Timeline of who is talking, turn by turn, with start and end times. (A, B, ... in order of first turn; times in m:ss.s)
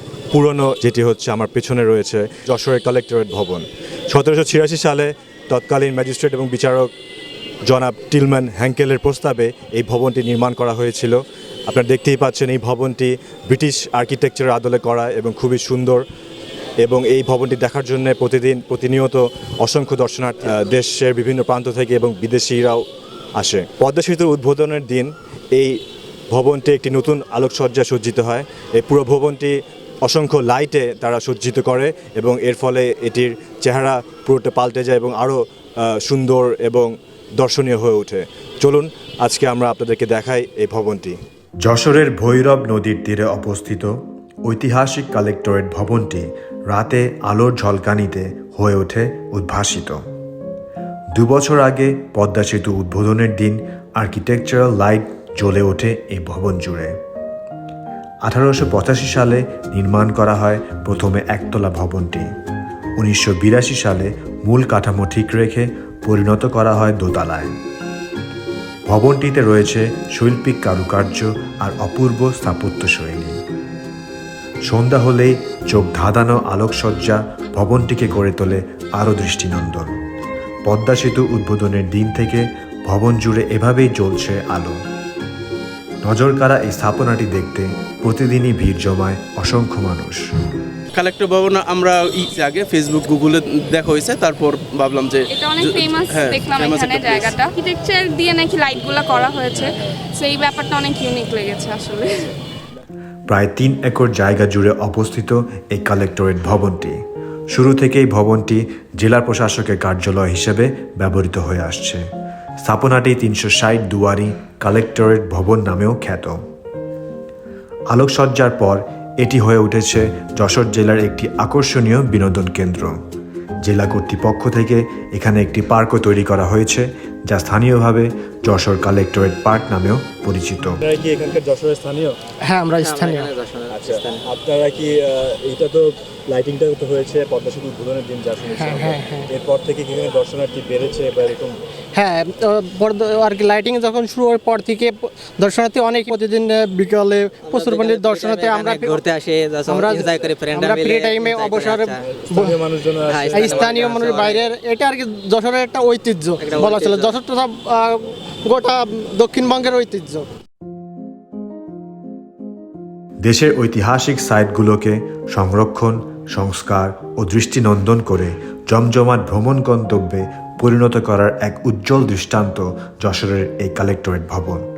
0:00.3-0:06.9 A
0:07.7-0:16.0 A
0:16.8-0:22.8 A
0:23.4-0:25.8 A
0:26.3-0:29.5 A
0:30.0-0:41.2 A
0:41.6-0:50.0 B
0:51.1-0:56.9 B
0:58.2-1:02.3 B
1:03.0-1:07.5 B
1:08.9-1:13.4 B
1:14.7-1:19.9 B
1:20.7-1:24.8 B
1:26.0-1:30.2 B
1:30.9-1:37.3 C
1:35.3-1:42.1 D
1:43.3-1:47.0 B
1:47.5-1:52.0 B
1:52.6-1:56.4 B
1:57.9-2:02.9 B
2:03.6-2:10.8 B
2:10.8-2:12.2 A
2:12.4-2:13.3 E
2:13.1-2:13.8 F
2:13.7-2:21.6 A
2:18.6-2:19.3 E
2:21.9-2:29.0 E
2:27.5-2:31.9 F
2:29.7-2:32.6 E
2:32.3-2:33.2 A
2:33.1-2:34.4 F
2:33.3-2:40.2 E
2:36.4-2:37.1 F
2:43.2-2:54.6 B